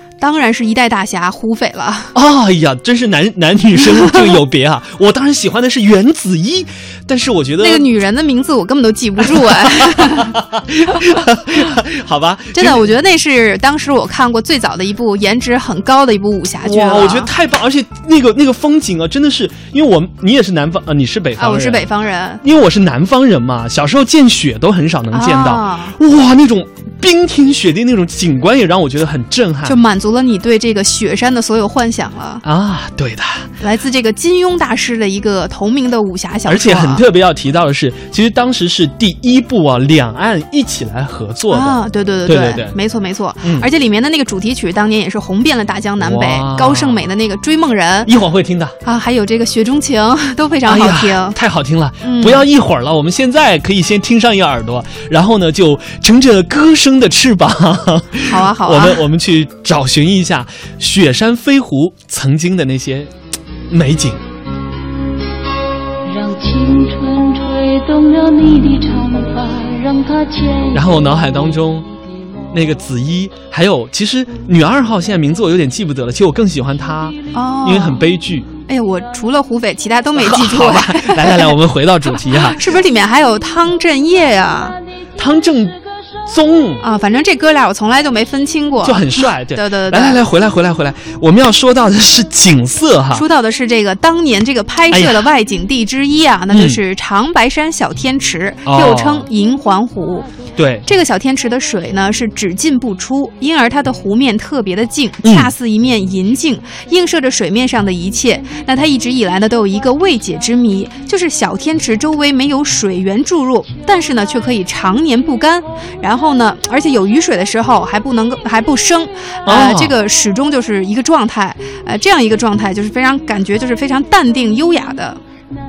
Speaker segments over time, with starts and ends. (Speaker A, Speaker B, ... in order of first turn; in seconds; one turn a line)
Speaker A: 0.2-2.1
Speaker B: 2.1-7.8
Speaker A: 7.6-10.4
Speaker B: 9.4-12.9
Speaker A: 12.5-17.3
Speaker B: 16.6-21.9
Speaker A: 21.4-22.4
Speaker B: 22.4-29.8
Speaker A: 25.1-26.0
Speaker A: 29.6-32.4
Speaker B: 32.4-33.5
Speaker A: 33.6-37.0
Speaker B: 36.5-42.7
Speaker A: 41.5-48.1
Speaker B: 43.4-43.7
Speaker B: 46.0-47.0
Speaker B: 48.0-48.8
Speaker A: 48.8-51.4
Speaker B: 50.6-63.1
Speaker A: 52.0-52.5
Speaker A: 58.2-59.0
Speaker B: 63.7-64.2
Speaker C: 66.0-70.8
Speaker B: 70.7-71.9
Speaker B: 72.5-78.5
Speaker A: 77.3-78.0
Speaker A: 78.7-81.5
Speaker B: 80.2-82.7
Speaker A: 82.3-84.8
Speaker B: 85.2-86.8
Speaker A: 86.8-90.2
Speaker B: 88.8-93.2
Speaker A: 93.1-100.3
Speaker B: 94.9-95.3
Speaker B: 96.5-96.8
Speaker B: 98.6-99.2
Speaker B: 100.5-100.8
Speaker A: 100.8-125.2
Speaker B: 105.2-105.5
Speaker B: 119.4-120.0